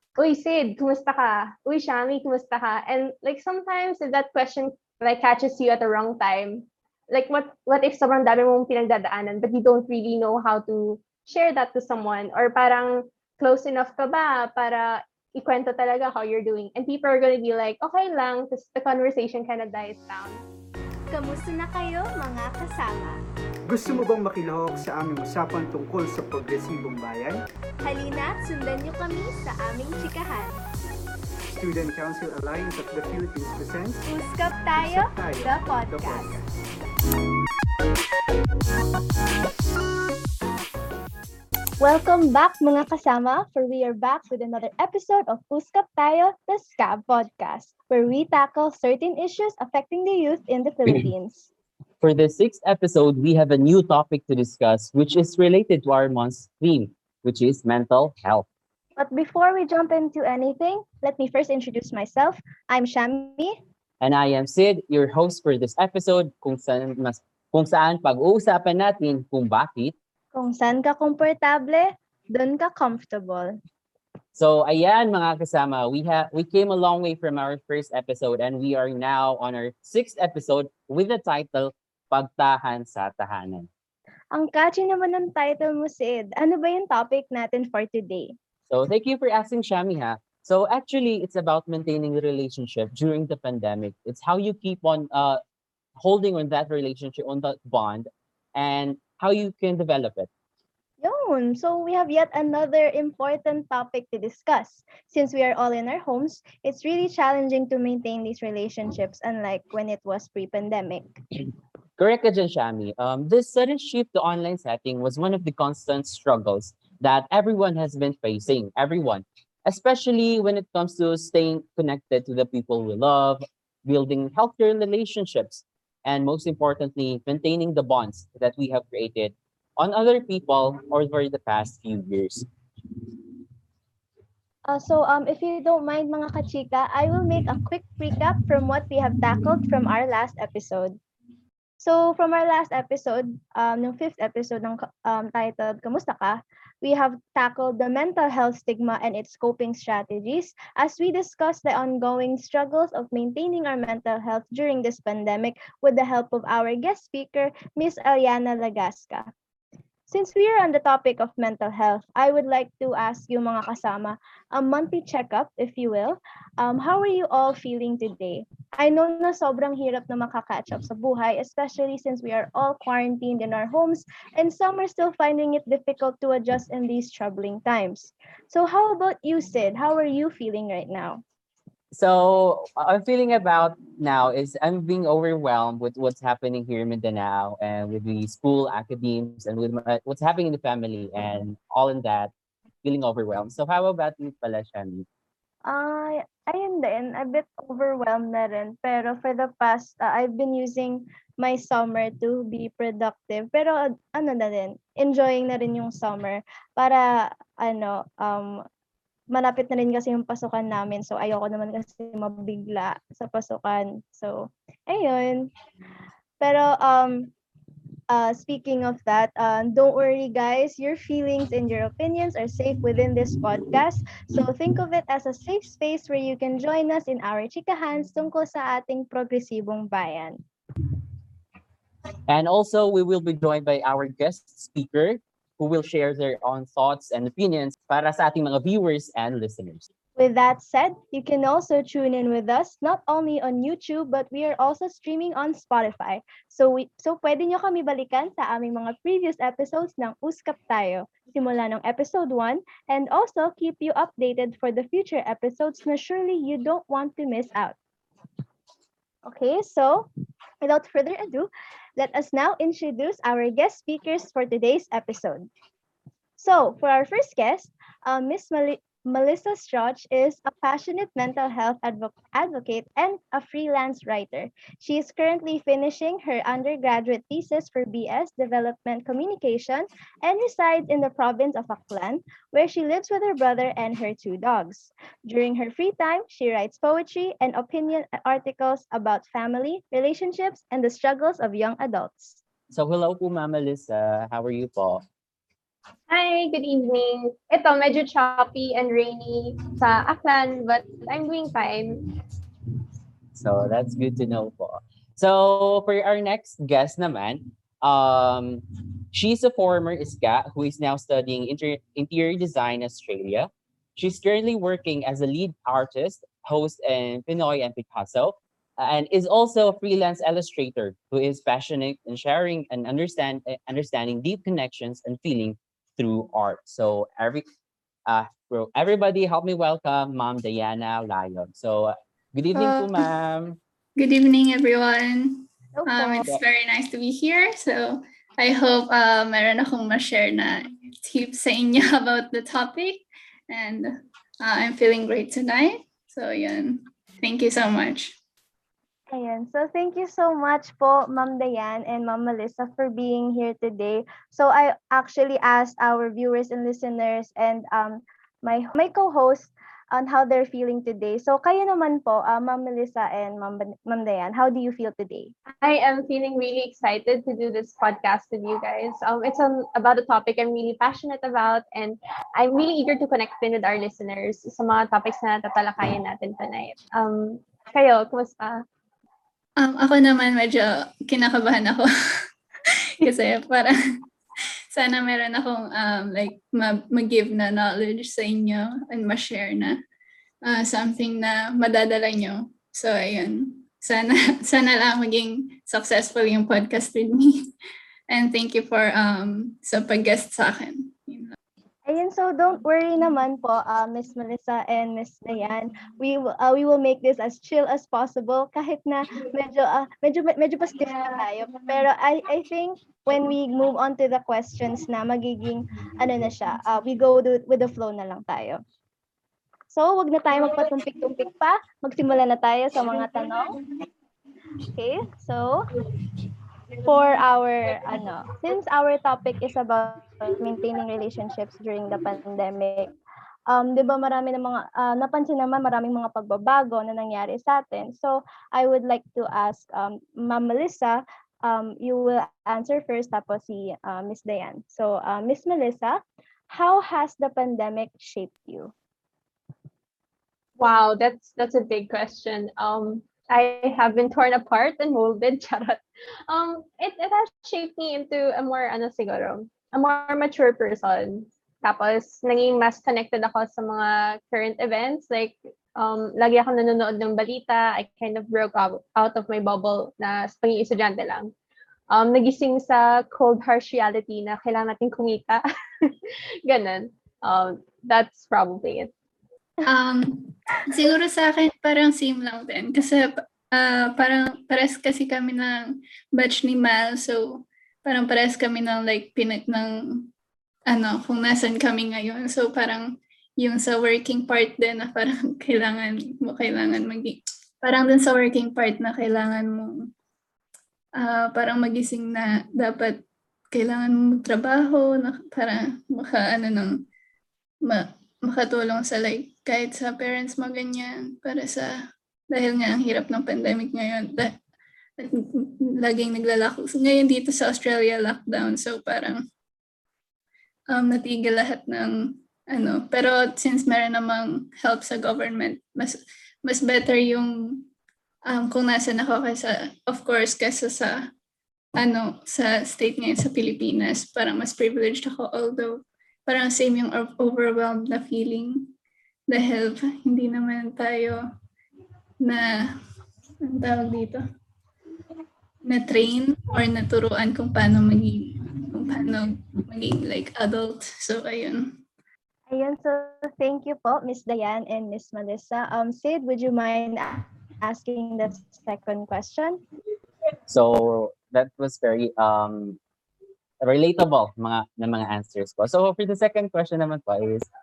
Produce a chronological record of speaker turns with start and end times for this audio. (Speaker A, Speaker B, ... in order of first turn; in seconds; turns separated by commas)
Speaker A: 0.2-20.4, Speaker B: 21.1-23.2, Speaker C: 23.7-27.4, Speaker B: 27.8-30.6, Speaker C: 31.5-34.0, Speaker B: 34.0-36.4, Speaker C: 34.8-36.4, Speaker B: 41.8-51.5, Speaker D: 52.0-58.5, Speaker B: 59.0-63.5, Speaker D: 64.0-69.9, Speaker B: 70.3-73.5, Speaker D: 74.3-83.7, Speaker B: 84.3-88.3, Speaker D: 88.7-95.4, Speaker D: 96.0-100.3, Speaker B: 101.0-111.1, Speaker D: 112.0-132.4, Speaker B: 134.7-141.0, Speaker B: 141.8-159.3, Speaker B: 160.1-181.2, Speaker D: 181.9-192.3, Speaker D: 192.8-195.1, Speaker B: 195.7-208.6, Speaker B: 209.3-215.5, Speaker B: 216.4-217.3, Speaker B: 218.1-230.4, Speaker D: 232.3-239.8, Speaker B: 240.2-257.8, Speaker B: 259.2-260.1, Speaker B: 260.6-265.5, Speaker B: 266.4-292.4, Speaker D: 292.7-295.0, Speaker A: 296.1-302.1, Speaker D: 303.3-327.4, Speaker D: 328.1-333.6, Speaker E: 332.5-333.0, Speaker E: 334.0-343.9, Speaker B: 335.8-336.3, Speaker E: 344.4-348.1, Speaker B: 349.1-365.3, Speaker A: 365.6-378.6, Speaker E: 379.6-383.8, Speaker E: 384.7-389.8, Speaker E: 390.4-397.5, Speaker E: 398.1-401.4, Speaker B: 401.9-418.6, Speaker B: 419.7-423.6, Speaker B: 424.7-425.7, Speaker B: 426.8-432.9, Speaker B: 433.5-448.7, Speaker A: 450.6-471.3, Speaker A: 471.9-478.9, Speaker E: 479.6-490.1, Speaker E: 490.7-499.9, Speaker E: 501.0-503.0, Speaker E: 503.5-506.8, Speaker E: 507.6-511.7, Speaker E: 512.3-514.3, Speaker E: 515.0-519.2, Speaker E: 520.7-527.7, Speaker E: 528.3-531.0, Speaker E: 531.8-538.7, Speaker E: 539.3-541.2, Speaker E: 542.2-542.8, Speaker E: 543.4-544.2, Speaker E: 545.6-551.8, Speaker B: 552.5-559.6, Speaker D: 560.5-562.8, Speaker D: 563.6-567.5